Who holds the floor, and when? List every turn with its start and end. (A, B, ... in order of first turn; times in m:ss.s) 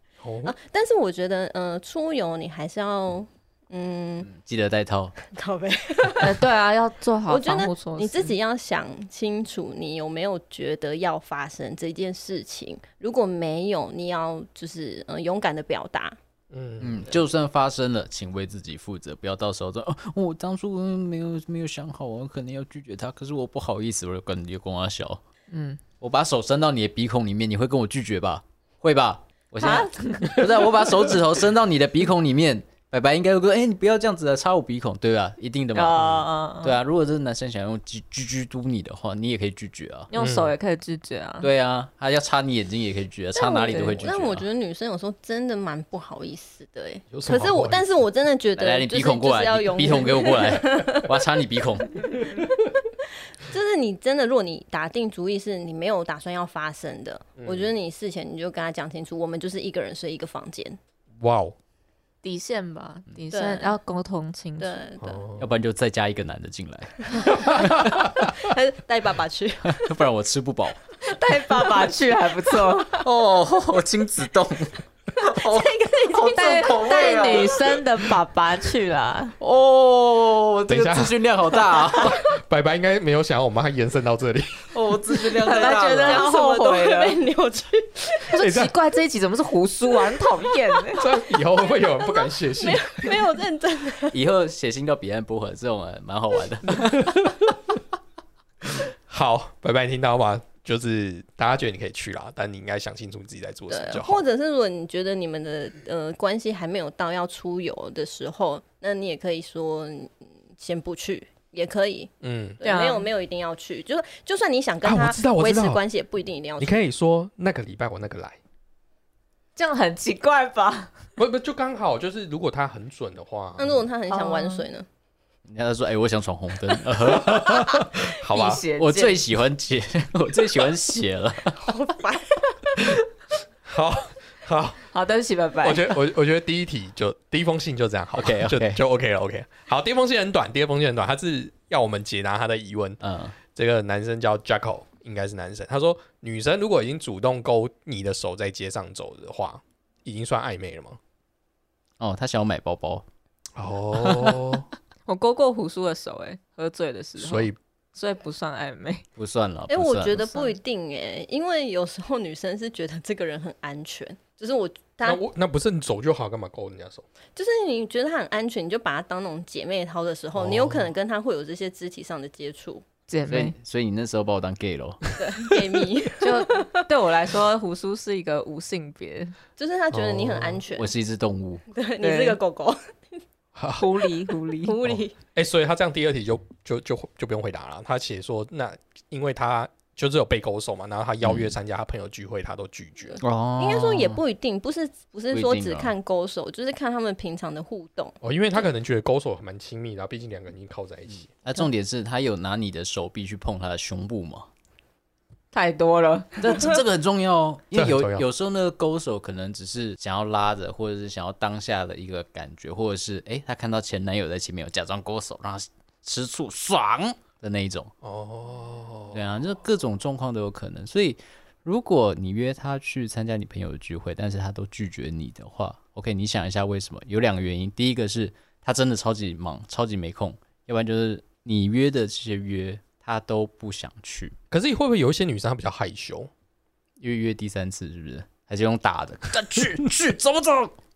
0:00.2-0:00.6 A
0:00.4-0:04.3 B
0:04.2-0:05.1 C
0:05.2-0:06.4 B
0:06.2-0:08.3 D
0:07.2-0:16.2 B
0:16.5-0:17.2 A
0:16.8-0:25.2 C
0:25.5-0:25.8 D
0:26.0-0:40.1 C
0:29.6-0:30.5 D
0:35.7-0:36.8 D
0:40.1-0:41.5 D
0:40.1-0:40.5 A
0:41.4-0:44.4 C
0:43.4-0:51.1 B
0:43.6-0:44.1 D
0:47.1-0:47.9 A
0:48.6-0:52.0 C
0:53.4-1:00.8 B
0:57.4-0:57.7 A
1:01.2-1:01.5 A
1:02.2-1:04.8 D
1:03.3-1:03.8 B
1:04.6-1:05.2 B
1:05.0-1:05.5 A
1:05.4-1:08.1 C
1:07.1-1:07.6 B
1:08.2-1:09.9 B
1:09.7-1:10.8 C
1:11.0-1:13.0 D
1:13.0-1:17.6 C
1:15.2-1:17.6 B
1:16.2-1:19.4 D
1:19.4-1:22.2 C
1:20.7-1:21.2 A
1:21.9-1:24.7 A
1:24.7-1:26.3 C
1:25.4-1:27.2 D
1:25.6-1:28.2 B
1:28.3-1:31.1 D
1:28.4-1:28.7 A
1:31.0-1:33.2 A
1:31.5-1:34.2 B
1:34.1-1:37.1 C
1:36.8-1:37.5 A
1:38.8-1:44.2 A
1:43.7-1:56.8 B
1:52.2-1:52.6 A
1:52.6-1:53.1 D
1:54.8-1:55.8 A
1:56.6-1:58.4 A
1:59.6-2:00.9 D
2:01.2-2:03.9 A
2:03.6-2:04.9 B
2:04.1-2:04.6 D
2:05.5-2:07.6 C
2:07.1-2:08.6 A
2:08.2-2:09.2 D
2:08.7-2:11.5 C
2:11.5-2:12.5 B
2:13.6-2:14.8 A
2:14.8-2:16.0 D
2:15.6-2:23.0 A
2:18.2-2:18.8 C
2:23.0-2:23.4 C
2:23.5-2:31.0 A
2:32.0-2:33.1 C
2:33.6-2:34.7 A
2:34.0-2:34.6 C
2:35.1-2:39.0 D
2:37.2-2:37.6 A
2:39.2-2:40.2 C
2:39.7-2:45.2 B
2:40.3-2:40.6 D
2:45.0-2:47.0 A
2:47.4-2:52.8 B
2:50.4-2:50.9 A
2:53.1-2:53.5 D
2:53.3-2:55.1 C
2:55.1-2:56.6 B
2:56.2-2:59.4 D
2:59.6-3:00.9 B
2:59.9-3:00.6 A
3:00.8-3:01.6 C
3:01.7-3:02.8 B
3:02.0-3:02.4 D
3:03.5-3:03.9 A
3:03.8-3:04.8 D
3:04.6-3:05.2 B
3:04.8-3:13.2 A
3:11.2-3:11.6 C
3:13.2-3:14.2 C
3:13.6-3:18.2 B
3:15.3-3:16.0 C
3:18.2-3:21.3 A
3:21.3-3:24.5 C
3:25.5-3:26.8 D
3:26.4-3:37.9 C
3:27.7-3:28.2 A
3:38.0-3:39.3 A
3:39.1-3:54.4 C
3:54.5-3:56.3 A
3:57.0-4:00.7 C